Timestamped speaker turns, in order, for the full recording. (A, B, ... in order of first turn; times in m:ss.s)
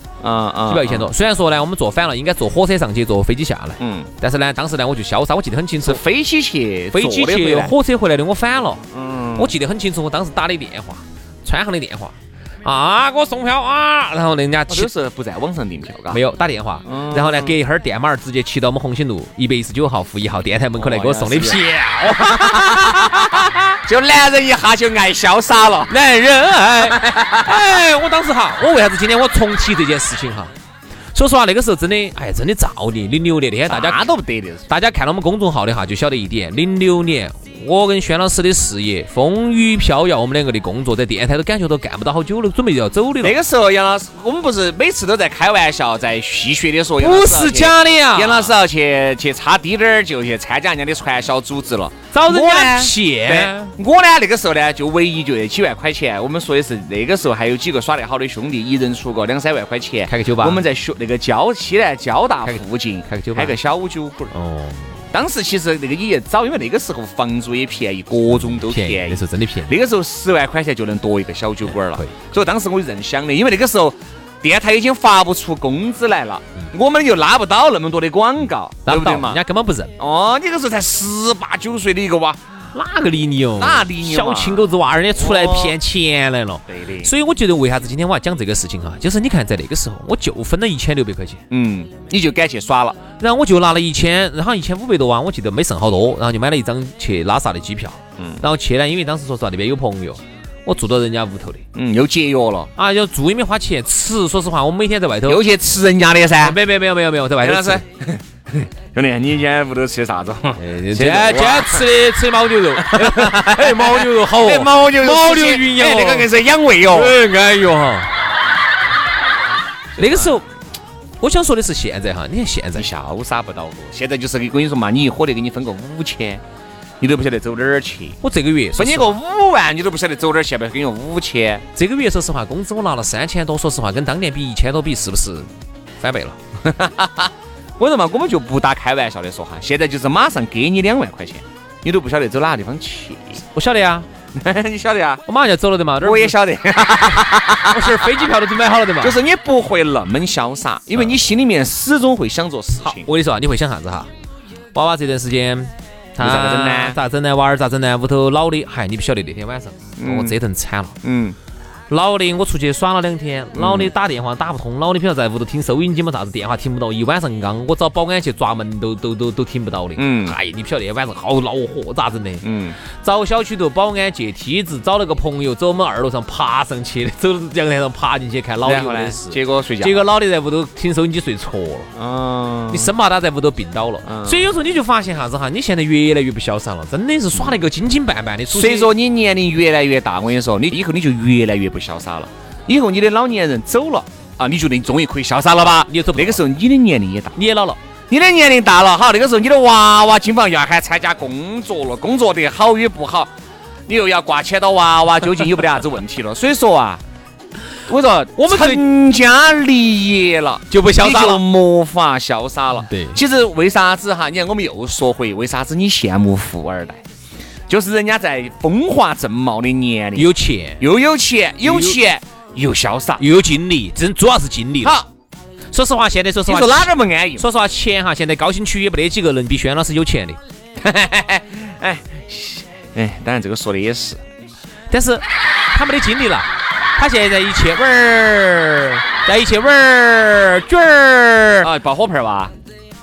0:00.2-0:01.1 A
0:00.7-0:06.0 B
0:03.8-0:04.1 A
0:05.8-0:07.7 A
0:06.9-0:08.8 B
0:08.9-0:09.5 A
0:09.4-0:14.9 B
0:14.7-0:16.2 A
0:16.1-0:23.6 B
0:16.8-0:17.6 A
0:20.7-0:21.6 A
0:22.1-0:25.9 A
0:25.9-0:30.5 B
0:26.8-0:27.6 A
0:31.1-0:34.0 B
0:33.7-0:34.6 A
0:34.7-0:43.4 B
0:43.2-1:04.3 A
0:47.0-0:48.5 B
0:52.1-0:53.7 B
1:00.0-1:00.6 B
1:02.5-1:03.6 B
1:04.3-1:05.0 B
1:05.1-1:19.4 A
1:08.3-1:09.7 B
1:11.8-1:12.2 B
1:18.8-1:19.9 B
1:20.0-1:22.4 A
1:22.7-1:31.4 B
1:23.6-1:25.8 A
1:26.7-1:27.1 A
1:31.5-1:33.0 A
1:33.2-1:41.6 B
1:38.2-1:38.4 A
1:41.7-1:42.7 A
1:42.8-1:45.4 B
1:45.2-1:46.6 A
1:46.4-1:47.8 B
1:47.4-1:51.9 A
1:50.6-1:56.3 B
1:52.8-1:57.2 A
1:56.9-1:58.1 B
2:00.0-2:00.4 B
2:00.0-2:00.4 A
2:01.2-2:02.9 B
2:02.7-2:06.4 A
2:07.0-2:08.2 A
2:08.2-2:09.2 B
2:08.8-2:11.6 A
2:11.7-2:15.5 B
2:16.0-2:16.4 B
2:16.6-2:23.4 A
2:23.5-2:24.0 B
2:24.3-2:25.2 A
2:25.3-2:26.4 B
2:26.0-2:28.0 A
2:27.6-2:29.2 B
2:29.0-2:33.1 A
2:32.8-2:34.1 B
2:34.7-2:41.0 B
2:36.2-2:37.0 A
2:40.0-2:40.3 A
2:41.0-2:41.4 A
2:41.9-2:52.4 B
2:43.6-2:43.9 A
2:50.0-2:50.4 A
2:52.4-2:52.8 A
2:53.0-3:01.9 B
2:58.6-3:00.1 A
3:01.9-3:02.9 A
3:02.7-3:08.9 B
3:04.0-3:04.5 A
3:08.5-3:17.4 A
3:15.8-3:16.4 B
3:17.3-3:17.8 B
3:18.1-3:23.3 A
3:23.9-3:27.0 A
3:27.9-3:37.0 A
3:28.4-3:28.8 B
3:30.7-3:31.4 B
3:32.8-3:33.2 B
3:37.7-3:43.2 A
3:40.1-3:40.8 B
3:41.6-3:42.0 B
3:43.2-3:45.0 B
3:44.8-3:45.1 A
3:45.7-3:50.4 B
3:46.4-3:47.4 A
3:50.8-3:54.2 A
3:54.9-4:01.7 B
4:01.6-4:02.5 A